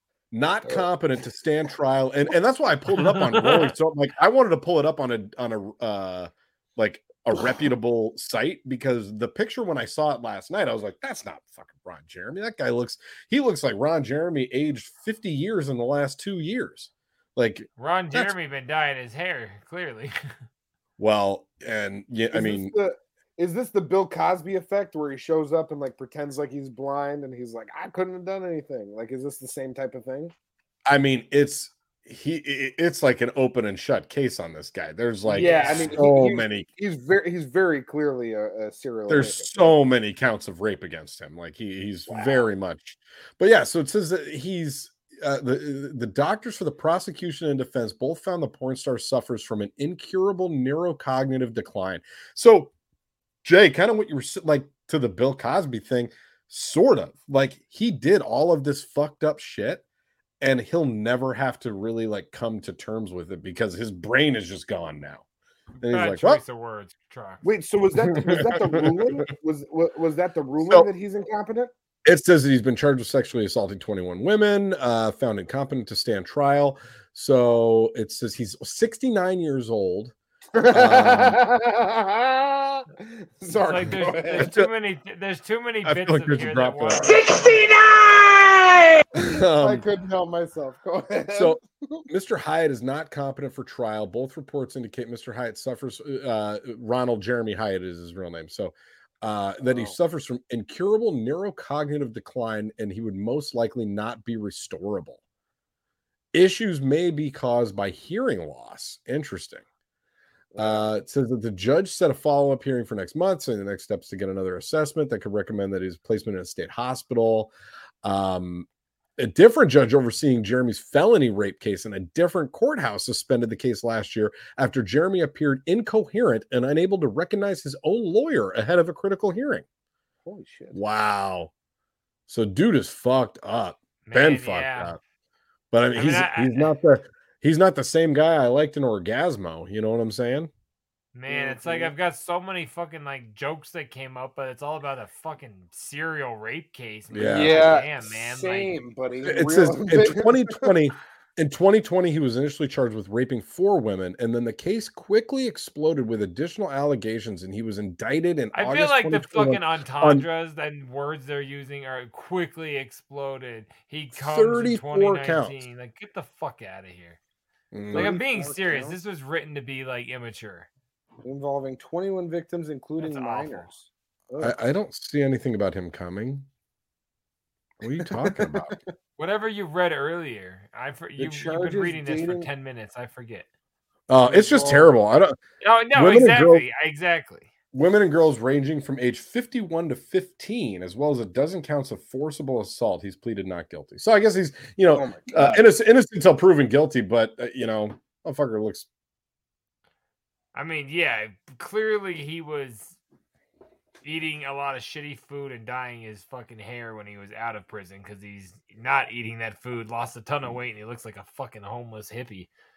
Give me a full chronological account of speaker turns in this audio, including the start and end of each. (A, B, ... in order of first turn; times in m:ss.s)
0:00.3-0:18.3 A
0:03.0-0:03.7 B
0:17.8-0:20.1 B
0:21.0-0:22.7 A
0:22.3-0:30.3 C
0:30.9-0:36.7 A
0:35.3-0:35.9 B
0:35.3-0:39.7 C
0:39.1-0:52.7 A
0:42.1-0:42.4 C
0:53.4-0:59.8 A
1:00.4-1:05.2 A
1:05.8-1:07.4 B
1:05.8-1:06.4 A
1:07.4-1:11.7 C
1:08.1-1:09.1 A
1:10.6-1:10.9 A
1:12.0-1:20.1 A
1:20.5-1:24.5 C
1:20.7-1:21.4 A
1:23.6-1:27.2 B
1:24.4-1:24.7 A
1:25.8-1:27.2 A
1:27.0-1:27.4 C
1:29.2-1:29.9 A
1:29.2-1:32.0 C
1:31.3-1:45.2 A
1:39.6-1:40.0 C
1:46.3-1:49.6 A
1:50.5-1:50.9 C
1:50.6-1:58.7 A
1:59.2-2:09.6 A
2:10.2-2:10.8 C
2:10.7-2:11.5 A
2:12.3-2:15.0 A
2:14.0-2:14.9 B
2:15.7-2:20.5 A
2:15.9-2:16.7 B
2:21.1-2:28.8 B
2:21.3-2:21.9 C
2:27.1-2:27.8 A
2:27.3-2:30.7 C
2:29.2-2:40.2 A
2:38.5-2:47.2 B
2:44.1-2:45.6 A
2:47.7-2:48.2 A
2:47.9-2:49.0 C
2:47.9-2:50.7 B
2:51.2-2:54.5 C
2:53.0-2:53.7 B
2:54.4-2:56.4 A
2:57.8-2:58.7 A
2:58.0-2:58.8 C
2:59.2-3:03.5 B
3:01.2-3:02.5 C
3:04.1-3:05.4 A
3:04.2-3:04.9 C
3:05.6-3:07.5 B
3:05.9-3:06.6 A
3:07.7-3:18.9 A
3:14.9-3:15.6 C
3:20.5-3:23.0 B
3:24.0-3:32.5 B